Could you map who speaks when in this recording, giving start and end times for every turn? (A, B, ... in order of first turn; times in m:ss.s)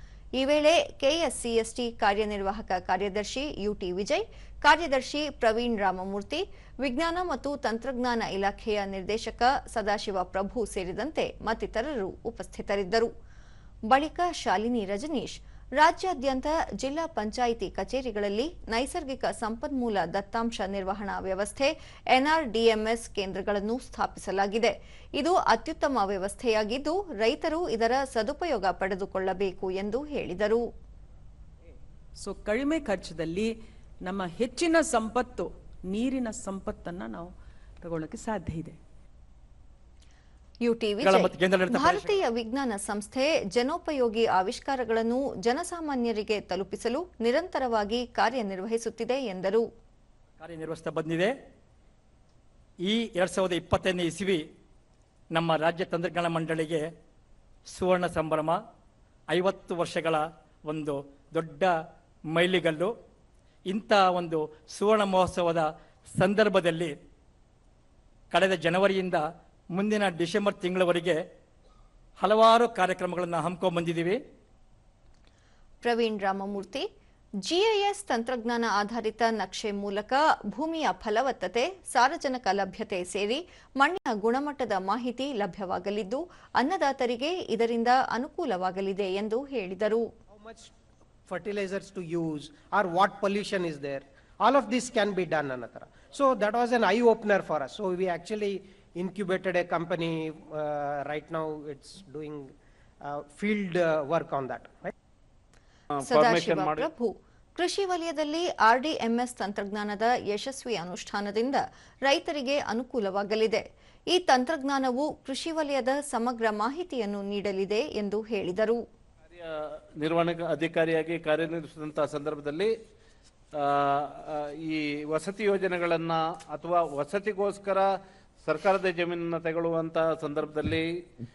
0:00.4-0:13.1 A
0:13.9-0:30.6 A
0:32.2-0:37.3 B
0:37.8-0:38.8 B
0:40.6-0:49.6 A
0:41.0-0:42.2 C
0:50.4-0:51.3 C
0:52.8-0:54.4 C
0:55.3-0:56.9 C
0:57.7-0:58.6 C
0:59.3-1:01.8 C
1:02.3-1:02.9 C
1:03.7-1:06.9 C
1:08.3-1:11.2 C
1:12.2-1:14.2 C
1:15.8-1:16.9 A
1:17.4-1:30.1 A
1:30.3-1:30.7 D
1:31.3-1:42.5 D
1:43.0-1:44.9 D
1:45.9-1:46.9 E
1:46.0-1:58.8 A
1:59.3-2:02.7 E
2:03.6-2:07.9 E
2:08.4-2:10.9 E